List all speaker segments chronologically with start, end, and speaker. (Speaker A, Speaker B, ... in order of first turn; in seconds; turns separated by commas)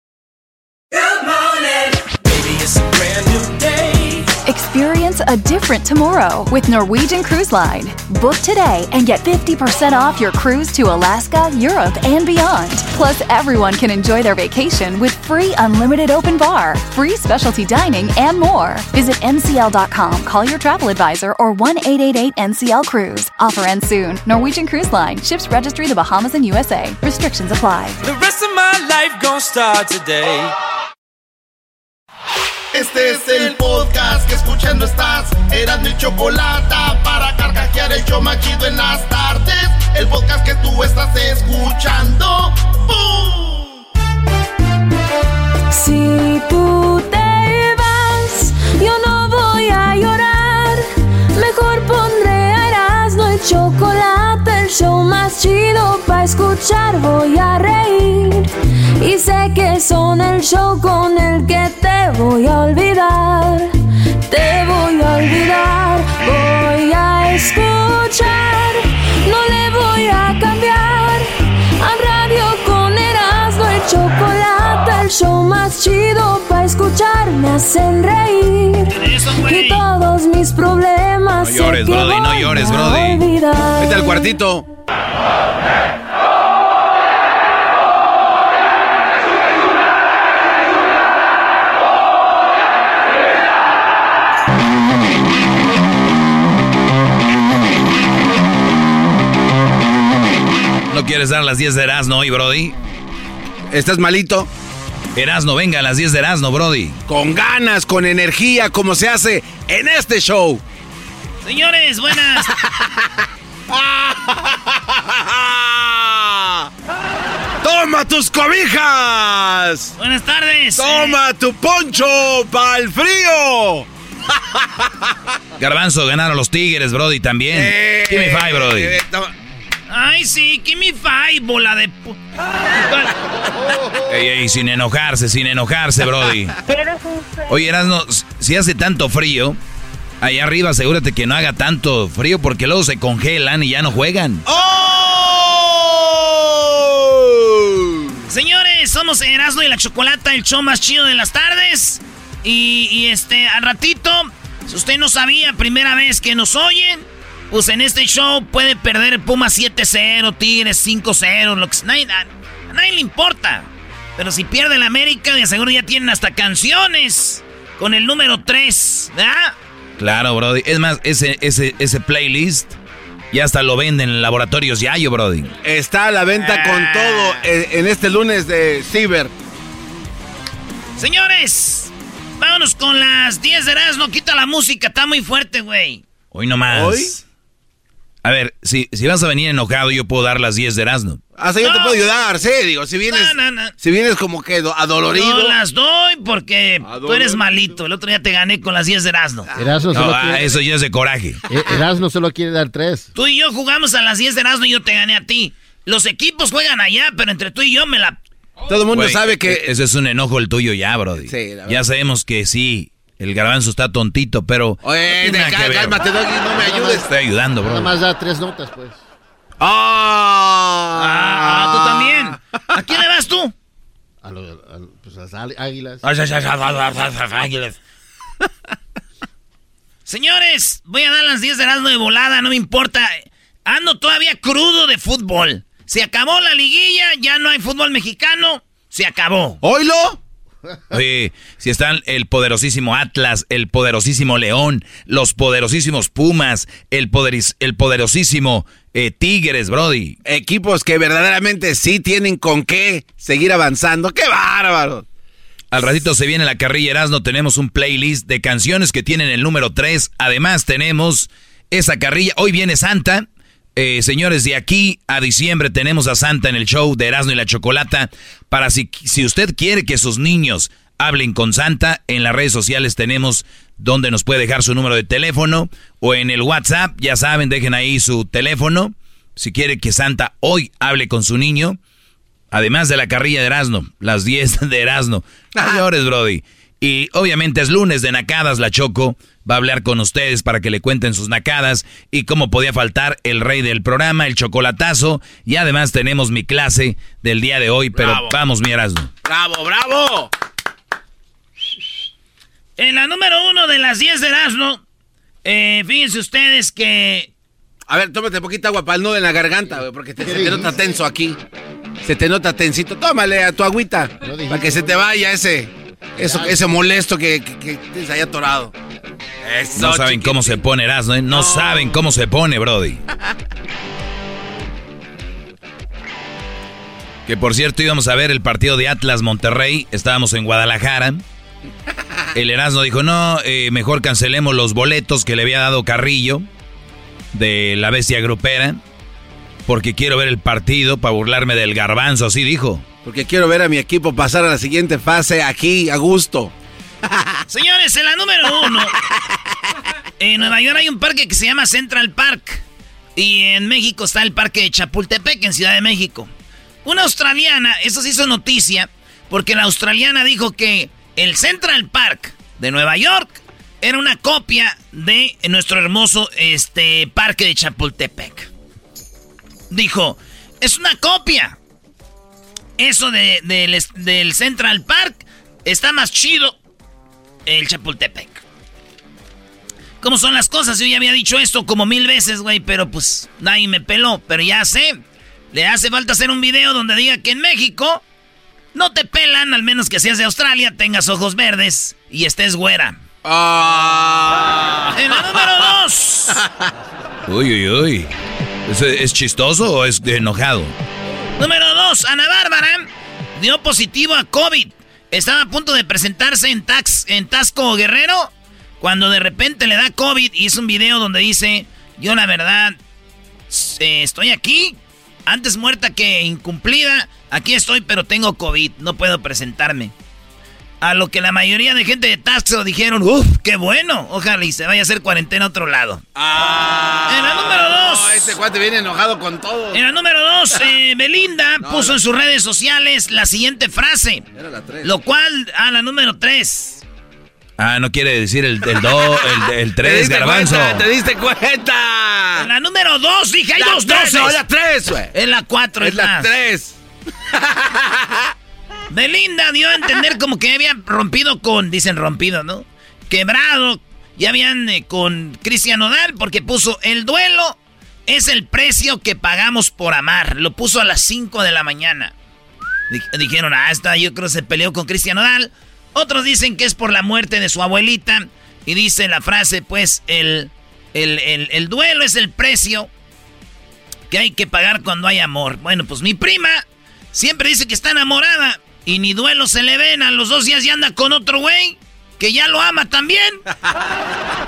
Speaker A: 1.0-4.3, Speaker B: 4.5-28.0, Speaker A: 28.0-30.5, Speaker C: 32.7-43.7, Speaker D: 45.7-63.7, Speaker D: 64.3-71.3, Speaker D: 71.8-84.2, Speaker E: 79.0-79.8, Speaker F: 81.4-83.2, Speaker G: 83.8-84.7, Speaker F: 100.9-102.8, Speaker G: 103.7-104.5, Speaker F: 105.1-107.0, Speaker G: 107.1-110.6, Speaker E: 111.4-112.5, Speaker G: 113.7-116.7, Speaker G: 117.6-119.9, Speaker E: 120.0-121.2, Speaker G: 120.8-123.9, Speaker F: 125.6-128.9, Speaker G: 127.5-129.3, Speaker E: 129.9-132.2, Speaker F: 134.1-136.6, Speaker F: 137.5-139.6, Speaker F: 140.2-144.4, Speaker G: 144.5-148.0, Speaker E: 148.3-163.7, Speaker E: 164.2-169.5, Speaker F: 170.0-172.8, Speaker F: 173.3-175.5, Speaker G: 175.6-179.3, Speaker E: 181.0-186.0, Speaker F: 186.3-187.2, Speaker G: 186.7-187.1, Speaker F: 188.2-191.2, Speaker G: 191.4-195.6, Speaker E: 191.6-192.0, Speaker E: 193.1-193.7, Speaker E: 195.1-199.5, Speaker G: 196.8-197.6, Speaker H: 199.5-200.6, Speaker F: 199.9-201.4, Speaker H: 201.5-203.1, Speaker E: 203.2-208.2, Speaker G: 208.7-209.7, Speaker F: 208.9-216.0, Speaker G: 211.2-211.8, Speaker G: 214.8-216.9, Speaker H: 216.5-217.0, Speaker F: 216.7-217.9, Speaker H: 217.6-219.0, Speaker G: 219.6-222.4, Speaker E: 221.1-223.5, Speaker H: 224.2-226.1, Speaker F: 226.0-226.5, Speaker E: 226.5-227.5, Speaker E: 230.1-239.6, Speaker G: 239.6-240.2, Speaker F: 240.9-250.2, Speaker G: 250.2-255.0, Speaker F: 255.7-281.8, Speaker F: 282.5-299.1, Speaker G: 297.9-298.3, Speaker G: 299.2-300.3, Speaker E: 302.8-304.8, Speaker E: 305.4-307.3, Speaker G: 307.9-311.4, Speaker H: 310.2-311.0, Speaker G: 312.0-318.7, Speaker H: 314.2-315.1, Speaker H: 316.1-316.7, Speaker G: 319.4-320.6, Speaker F: 319.7-323.0, Speaker F: 327.2-331.2, Speaker F: 332.3-336.5, Speaker F: 337.3-338.8, Speaker F: 339.6-342.9, Speaker G: 343.0-346.5, Speaker E: 347.5-348.9, Speaker E: 350.2-352.6, Speaker E: 353.1-356.3, Speaker E: 356.9-368.5, Speaker E: 369.7-371.5, Speaker E: 372.8-376.5, Speaker E: 377.4-378.4, Speaker E: 380.0-385.0, Speaker E: 385.5-388.0, Speaker E: 388.7-392.9, Speaker G: 393.2-395.1, Speaker E: 394.9-396.3, Speaker F: 397.2-398.1, Speaker F: 398.7-400.7, Speaker E: 401.4-412.8, Speaker E: 413.5-414.8, Speaker E: 415.3-419.9, Speaker E: 420.8-426.0, Speaker G: 426.1-429.8, Speaker E: 427.1-428.3, Speaker E: 429.7-434.2, Speaker G: 431.6-431.9, Speaker G: 434.4-434.9, Speaker E: 434.8-436.8, Speaker F: 437.6-440.8, Speaker G: 439.8-442.5, Speaker E: 442.4-444.4, Speaker G: 443.6-445.1, Speaker E: 445.1-446.3, Speaker G: 445.8-446.8, Speaker G: 447.3-448.2, Speaker E: 448.9-457.6, Speaker E: 458.1-462.1, Speaker E: 462.9-472.9, Speaker E: 474.1-476.6, Speaker E: 477.1-483.4